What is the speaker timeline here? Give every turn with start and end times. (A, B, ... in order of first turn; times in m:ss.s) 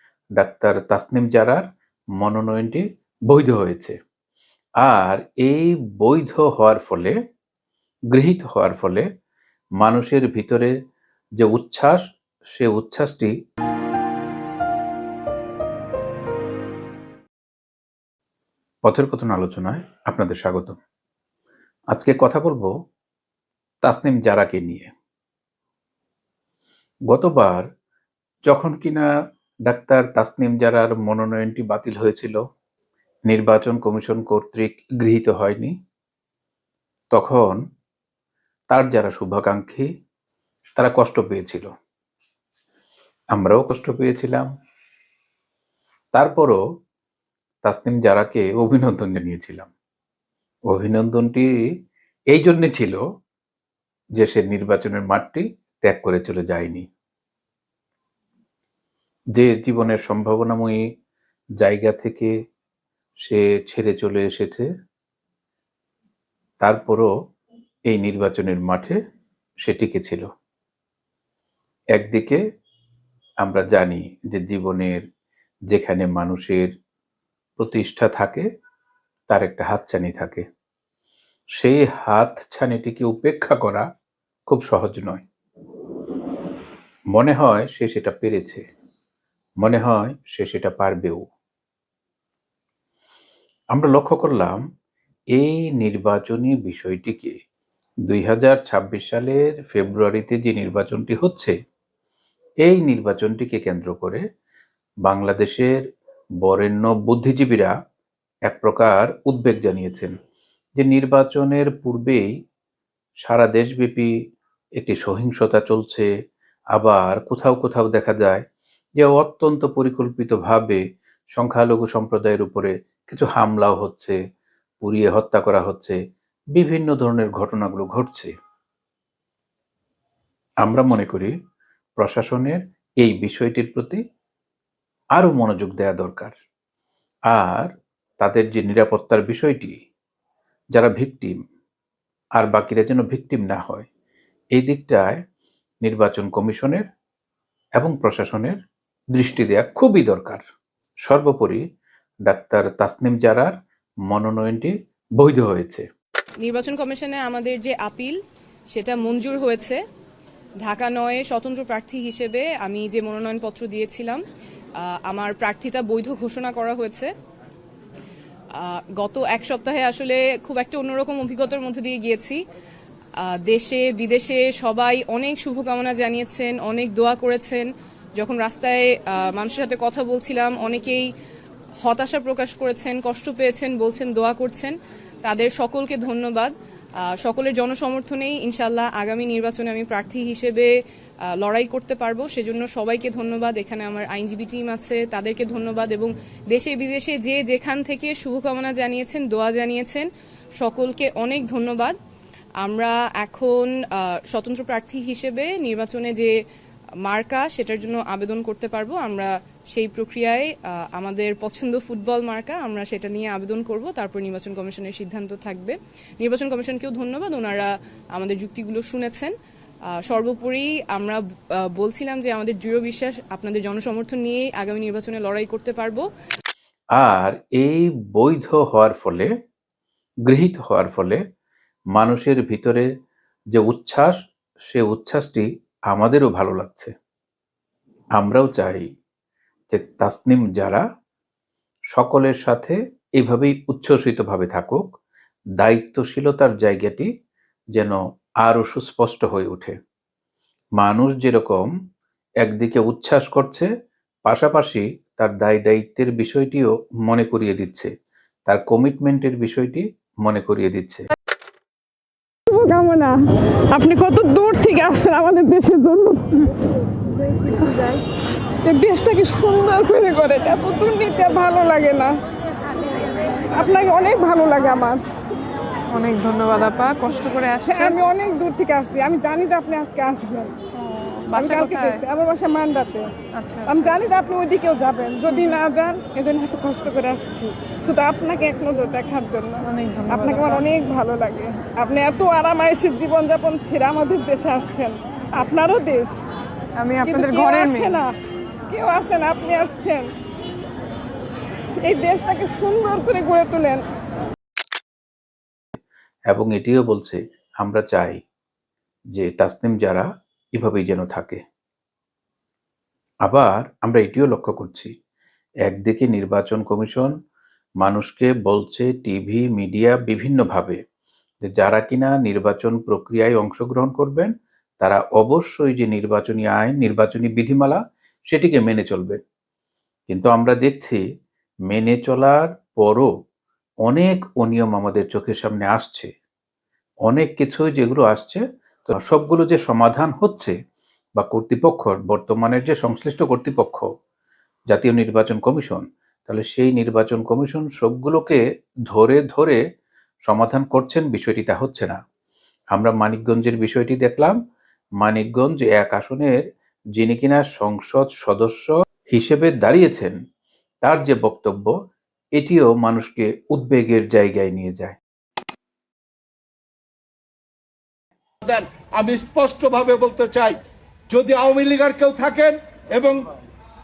0:00.4-0:01.6 A
0:02.2-0:03.9 A
0:04.8-0:07.2 A
0:08.1-0:09.1 A
0:09.8-0:10.7 A
0:11.4-0:12.0 A
0:12.6-0:13.3 A
0:18.8-0:20.8 A
0:21.9-0:22.7 A
0:23.8-0:24.9 A
0:27.1-0:27.7 A
0:28.5-0:29.0 A
0:29.7-0:32.4 A
0:33.3-0:35.7 A
0:37.1-0:37.6 A
0:38.7-0:39.9 A
0:40.8-0:41.7 A
0:43.3-0:44.5 A
0:46.1-0:46.6 A
0:47.6-0:49.7 A
0:50.7-0:51.5 A
0:52.3-0:53.0 A
0:54.2-0:56.9 A
0:59.4-1:00.8 A
1:01.6-1:02.3 A
1:03.2-1:04.6 A
1:06.6-1:07.1 A
1:07.9-1:09.0 A
1:09.6-1:10.3 A
1:11.9-1:12.4 A
1:13.4-1:15.0 A
1:15.7-1:16.7 A
1:17.6-1:18.4 A
1:19.3-1:20.4 A
1:21.6-1:23.8 A
1:24.5-1:25.2 A
1:27.1-1:28.6 A
1:29.6-1:31.2 A
1:33.7-1:34.6 A
1:35.4-1:37.4 A
1:38.1-1:41.5 A
1:42.6-1:44.2 A
1:45.0-1:45.8 A
1:46.4-1:47.7 A
1:48.5-1:50.1 A
1:50.8-1:52.2 A
1:53.2-1:54.1 A
1:54.8-1:56.1 A
1:56.7-1:58.4 A
1:59.0-2:00.8 A
2:01.4-2:04.2 A
2:04.8-2:06.0 A
2:06.5-2:08.3 A
2:10.6-2:11.3 A
2:12.0-2:14.0 A
2:15.2-2:16.4 A
2:17.3-2:19.8 A
2:20.7-2:21.4 A
2:22.4-2:23.9 A
2:24.6-2:25.2 A
2:25.8-2:26.8 A
2:27.8-2:28.6 A
2:29.1-2:30.4 A
2:31.0-2:31.6 A
2:32.3-2:33.5 A
2:34.1-2:35.8 A
2:36.4-2:38.2 B
2:38.7-2:39.8 B
2:40.6-2:44.2 B
2:44.8-2:47.1 B
2:48.5-2:52.4 B
2:53.2-3:01.1 B
3:01.8-3:10.7 B
3:11.4-3:22.0 B
3:22.6-3:26.3 B
3:27.0-3:39.3 B
3:40.1-3:41.2 B
3:41.7-3:46.0 B
3:47.0-3:49.3 A
3:50.3-3:51.2 A
3:52.0-3:52.9 A
3:53.5-3:54.1 A
3:54.7-3:56.9 A
3:58.2-3:58.9 A
3:59.7-4:00.8 A
4:01.9-4:04.8 A
4:05.6-4:07.1 A
4:07.8-4:09.8 A
4:10.8-4:11.7 A
4:12.4-4:13.7 A
4:14.2-4:17.9 A
4:18.5-4:21.0 A
4:22.5-4:23.1 C
4:23.7-4:26.3 C
4:28.6-4:32.1 C
4:33.5-4:35.0 C
4:35.9-4:38.0 D
4:37.7-4:40.5 C
4:40.8-4:42.0 D
4:41.3-4:43.1 C
4:43.4-4:43.9 D
4:43.7-4:56.1 C
4:49.6-4:50.6 D
4:56.8-4:58.0 D
4:57.0-4:58.0 C
4:58.7-5:00.0 C
5:01.8-5:03.8 C
5:06.3-5:08.2 A
5:09.2-5:11.4 A
5:13.3-5:14.9 A
5:15.6-5:17.1 A
5:17.8-5:20.8 A
5:21.4-5:27.8 A
5:28.3-5:29.2 A
5:30.1-5:31.0 A
5:31.7-5:33.1 A
5:33.8-5:36.1 A
5:37.1-5:40.5 A
5:41.2-5:43.8 A
5:44.7-5:49.6 A
5:50.3-5:52.0 A
5:52.7-5:54.4 A
5:55.0-5:56.4 A
5:57.0-6:00.2 A
6:00.8-6:01.7 A
6:02.4-6:05.0 A
6:08.4-6:10.6 E
6:11.1-6:13.2 E